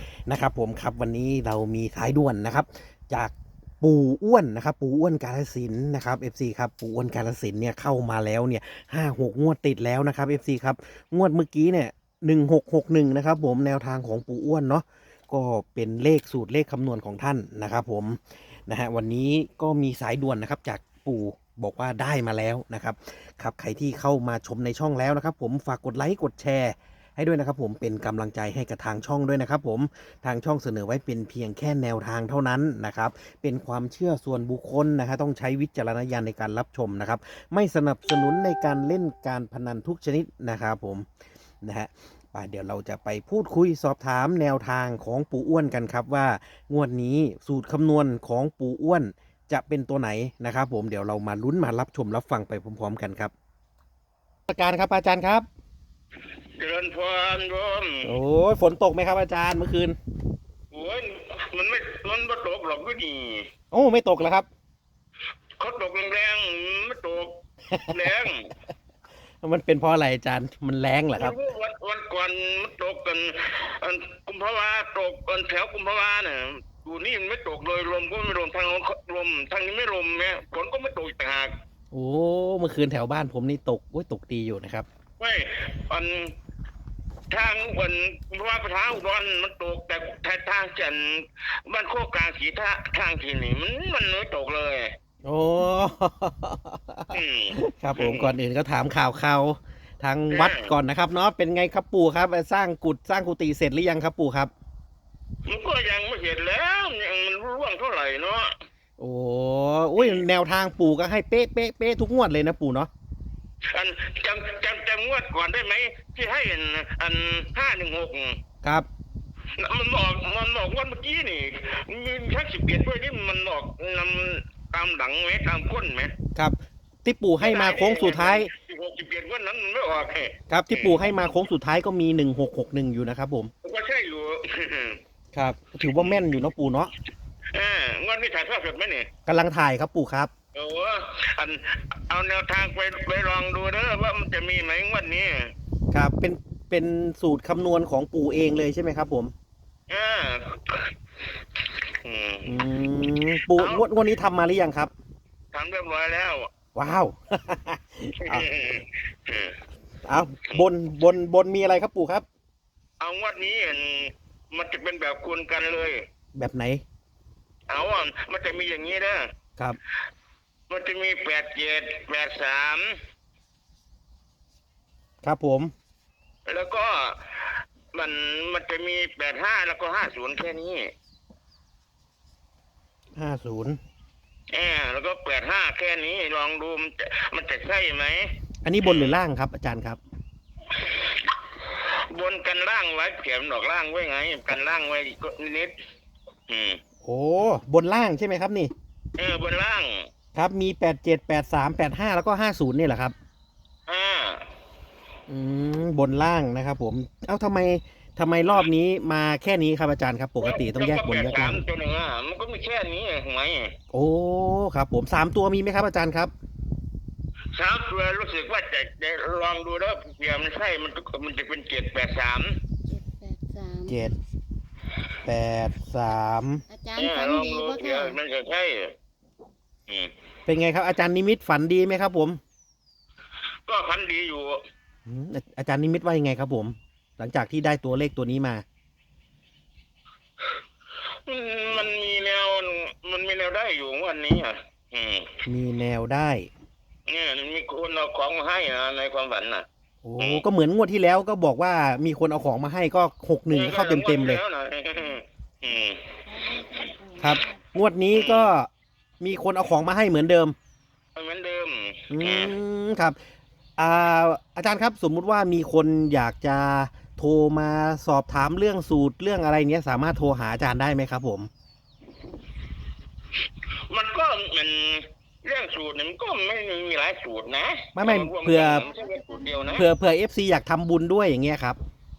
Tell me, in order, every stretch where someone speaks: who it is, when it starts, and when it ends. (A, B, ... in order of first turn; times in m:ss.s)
0:00.3-0:41.1 A
0:41.6-0:53.3 A
0:54.5-0:55.5 A
0:56.6-0:58.1 B
0:58.0-1:00.0 A
1:00.7-1:03.5 B
1:03.7-1:04.5 A
1:05.6-1:08.5 B
1:09.4-1:11.4 A
1:11.2-1:21.5 B
1:21.9-1:24.9 A
1:25.2-1:26.4 B
1:27.3-1:35.0 B
1:35.2-1:44.5 A
1:37.1-1:38.4 B
1:40.3-1:40.7 B
1:45.5-1:48.5 B
1:49.0-1:52.9 A
1:50.0-1:50.2 B
1:53.7-1:58.4 B
1:58.6-1:58.9 A
1:59.6-2:06.1 B
2:06.4-2:08.5 A
2:07.4-2:11.0 B
2:10.5-2:13.5 A
2:13.6-2:15.0 B
2:15.3-2:16.9 A
2:15.9-2:16.2 B
2:17.5-2:19.1 B
2:19.3-2:20.3 A
2:20.5-2:25.5 B
2:25.9-2:29.3 A
2:29.9-2:30.9 B
2:31.6-2:32.6 B
2:32.5-2:34.9 A
2:33.4-2:33.9 B
2:35.5-2:36.5 B
2:36.8-2:38.5 A
2:38.2-2:39.6 B
2:40.1-2:42.2 A
2:43.0-2:46.0 B
2:46.4-2:46.8 A
2:47.7-2:49.3 B
2:50.7-2:53.0 B
2:55.2-2:55.7 A
2:56.5-3:00.9 B
3:03.2-3:03.8 A
3:04.5-3:09.2 B
3:08.6-3:10.0 A
3:10.7-3:15.8 B
3:16.5-3:16.8 B
3:17.0-3:18.7 A
3:19.2-3:20.1 B
3:20.4-3:23.2 A
3:23.9-3:24.5 B
3:25.3-3:31.6 A
3:30.4-3:33.7 B
3:33.9-3:36.3 A
3:37.6-3:42.6 B
3:42.9-3:44.0 C
3:43.9-3:44.2 A
3:45.2-3:46.6 A
3:46.7-3:48.2 C
3:47.0-3:48.9 B
3:50.5-3:52.4 A
3:53.7-3:54.6 B
3:55.1-3:58.6 A
4:01.3-4:05.4 B
4:05.5-4:06.5 A
4:07.1-4:09.7 B
4:10.0-4:14.4 A
4:10.2-4:10.4 B
4:13.5-4:16.0 B
4:15.1-4:17.6 C
4:17.2-4:18.7 A
4:18.1-4:18.5 B
4:19.2-4:20.6 A
4:21.2-4:22.6 B
4:22.1-4:23.2 A
4:23.8-4:31.5 A
4:33.9-4:39.9 B
4:38.0-4:38.9 A
4:38.6-4:39.9 C
4:39.8-4:41.8 A